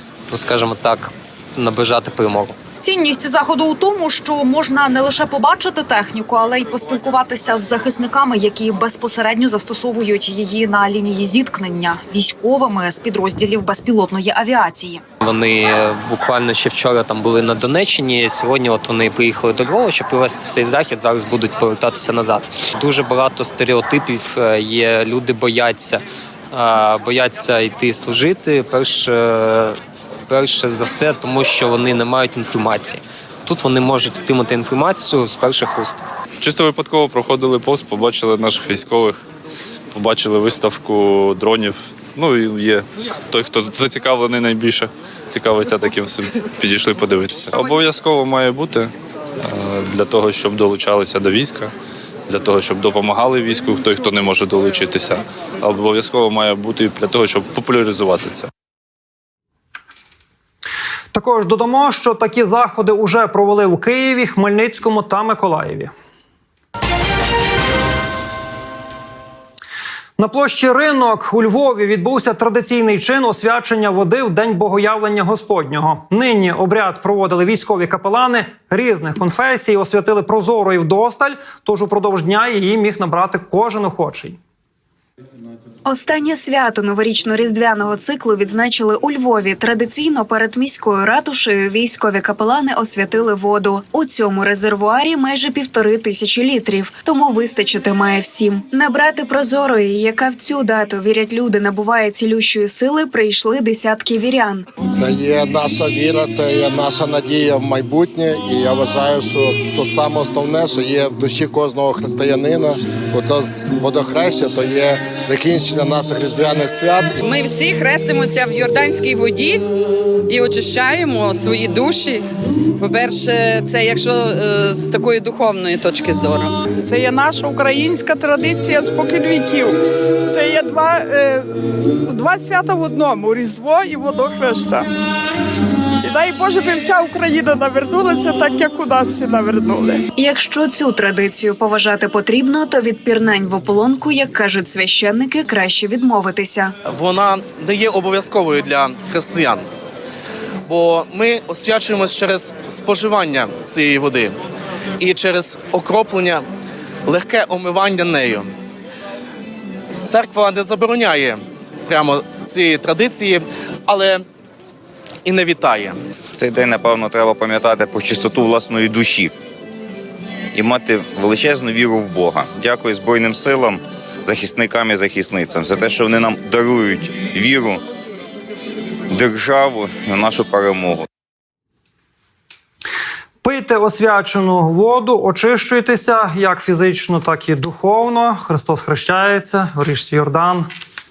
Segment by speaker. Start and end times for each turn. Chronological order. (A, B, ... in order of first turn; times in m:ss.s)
0:00.3-0:02.6 A
0:02.8-0:15.0 B
0:03.1-0:05.2 C
0:05.9-0:08.8 C
0:11.3-0:11.6 C
0:12.2-0:12.9 C
0:15.2-0:36.0 A
0:36.4-0:39.2 D
0:39.9-0:48.9 D
0:49.4-0:51.7 D
0:52.3-0:58.5 D
1:01.1-1:05.9 E
1:10.2-1:24.4 E
1:25.8-1:44.7 F
1:44.9-1:57.2 G
1:57.3-1:59.6 H
2:00.3-2:02.2 H
2:02.8-2:06.5 H
2:06.8-2:09.8 C
2:10.3-2:11.4 C
2:12.1-2:14.8 C
2:16.0-2:20.0 C
2:20.2-2:26.7 F
2:26.9-2:29.6 I
2:30.7-2:34.3 I
2:35.0-2:36.4 I
2:37.1-2:38.5 I
2:40.0-2:44.2 I
2:45.2-2:46.0 I
2:46.4-2:49.3 J
2:50.5-2:57.8 J
2:59.1-3:01.0 J
3:03.4-3:10.6 E